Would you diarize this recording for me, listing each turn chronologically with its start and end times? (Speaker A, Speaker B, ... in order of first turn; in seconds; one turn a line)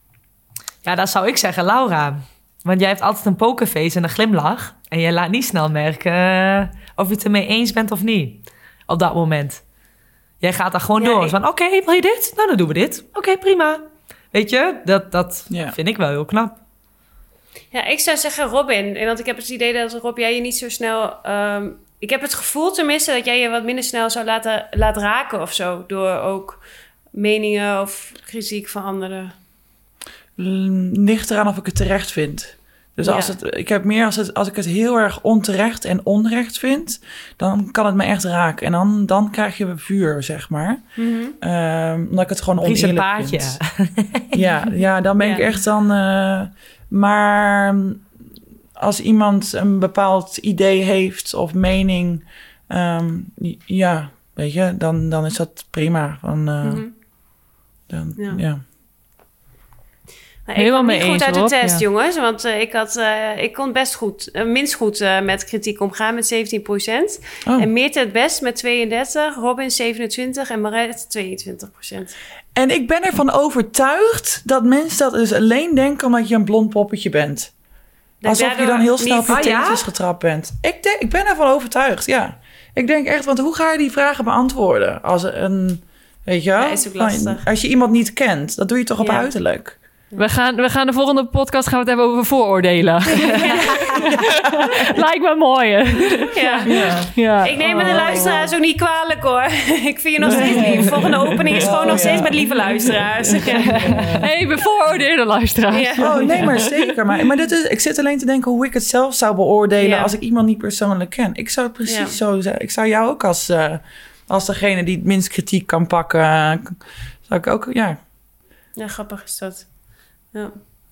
Speaker A: 0.8-9.6
Speaker A: 10.4-16.6
Speaker B: 11.0-11.3
Speaker C: 15.5-15.8
Speaker B: 17.7-26.6
Speaker B: 27.1-29.3
Speaker C: 30.4-40.8
Speaker B: 33.0-33.3
Speaker B: 41.0-41.4
Speaker C: 41.4-43.6
Speaker A: 42.6-44.3
Speaker C: 44.3-48.0
Speaker B: 45.2-45.5
Speaker C: 48.8-56.9
Speaker B: 56.6-56.9
Speaker C: 57.9-58.6
Speaker B: 60.5-72.1
Speaker D: 60.6-61.8
Speaker C: 72.5-77.5
Speaker B: 78.2-79.5
Speaker C: 78.2-89.8
Speaker A: 79.2-79.8
Speaker B: 86.6-87.4
Speaker B: 89.0-89.3
Speaker D: 90.2-98.5
Speaker B: 93.3-94.1
Speaker B: 96.3-104.2
Speaker C: 96.7-97.1
Speaker C: 97.7-98.2
Speaker C: 100.2-101.0
Speaker C: 101.6-104.3
Speaker D: 104.2-106.7
Speaker B: 105.7-106.7
Speaker C: 106.0-118.0
Speaker B: 109.8-110.1
Speaker B: 111.9-112.2
Speaker B: 118.8-120.6